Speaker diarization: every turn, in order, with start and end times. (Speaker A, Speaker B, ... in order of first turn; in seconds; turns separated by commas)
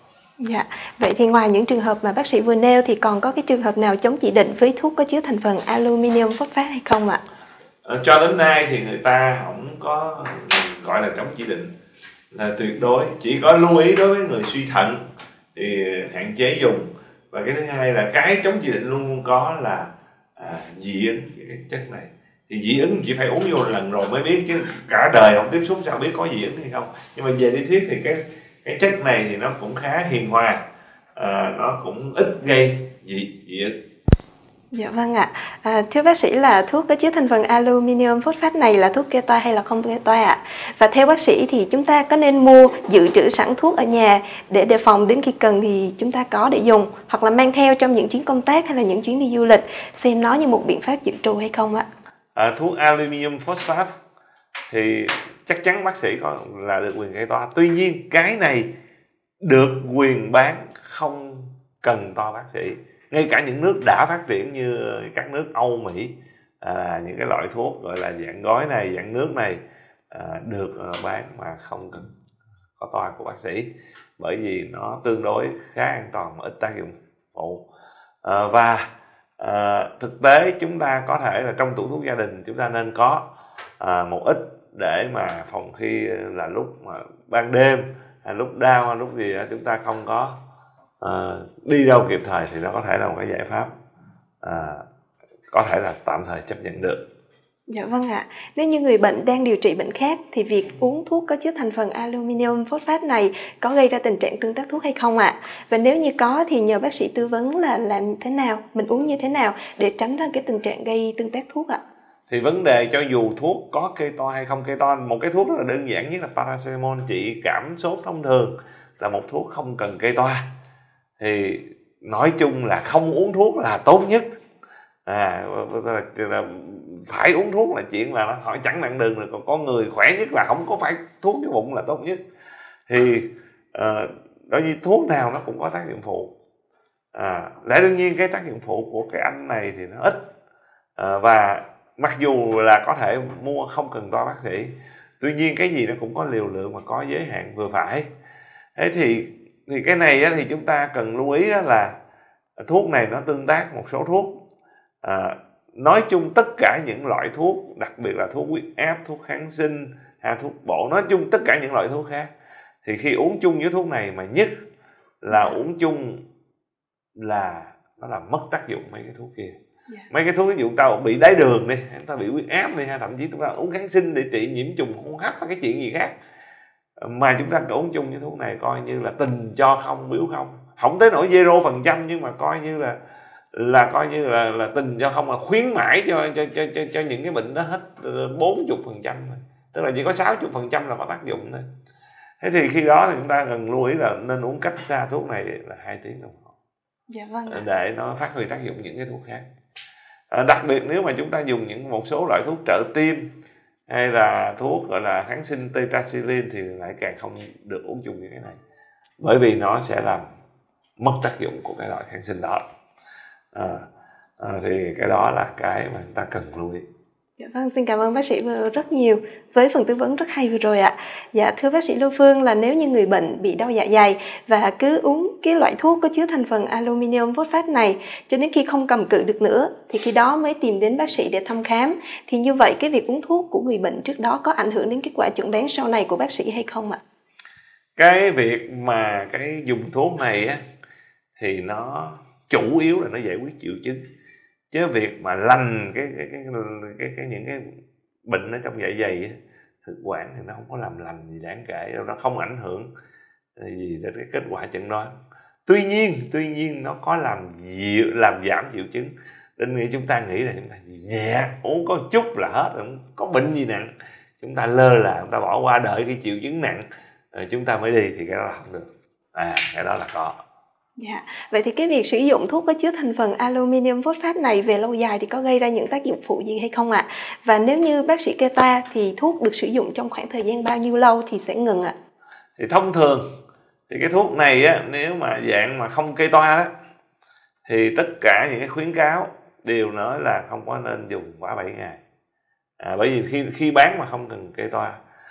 Speaker A: 0.4-7.2, Speaker B: 7.8-11.7, Speaker B: 12.3-15.0, Speaker B: 15.6-30.6, Speaker B: 31.2-33.7, Speaker A: 34.7-51.9, Speaker B: 52.4-53.9, Speaker B: 54.7-58.7, Speaker B: 59.4-72.1, Speaker B: 72.8-77.7, Speaker B: 78.2-83.3, Speaker B: 83.8-90.3, Speaker B: 91.0-93.7, Speaker B: 94.4-94.8, Speaker B: 95.5-97.1, Speaker A: 97.7-111.8, Speaker B: 112.3-120.5, Speaker B: 121.2-124.3, Speaker B: 125.1-132.2, Speaker B: 132.9-136.3, Speaker B: 137.1-140.3, Speaker B: 141.0-148.1, Speaker B: 148.8-152.0, Speaker B: 152.6-154.4, Speaker B: 155.0-162.3, Speaker B: 162.8-164.5, Speaker B: 165.2-166.2, Speaker A: 165.3-165.6, Speaker B: 167.2-169.6, Speaker B: 170.1-176.2, Speaker B: 177.0-183.0, Speaker B: 183.5-191.6, Speaker B: 192.4-196.5, Speaker A: 197.1-197.7, Speaker B: 197.5-199.4, Speaker B: 200.3-203.3, Speaker B: 203.9-208.6, Speaker B: 209.2-210.2, Speaker B: 211.0-212.6, Speaker B: 213.5-213.8, Speaker B: 214.4-216.8, Speaker A: 217.4-237.0, Speaker B: 238.0-240.6, Speaker B: 241.4-244.0, Speaker B: 244.7-247.7, Speaker B: 248.3-252.9, Speaker B: 253.6-255.1, Speaker B: 255.7-270.4, Speaker A: 271.0-281.9, Speaker B: 282.6-283.2, Speaker B: 283.9-286.7, Speaker B: 287.7-292.0, Speaker B: 292.8-295.0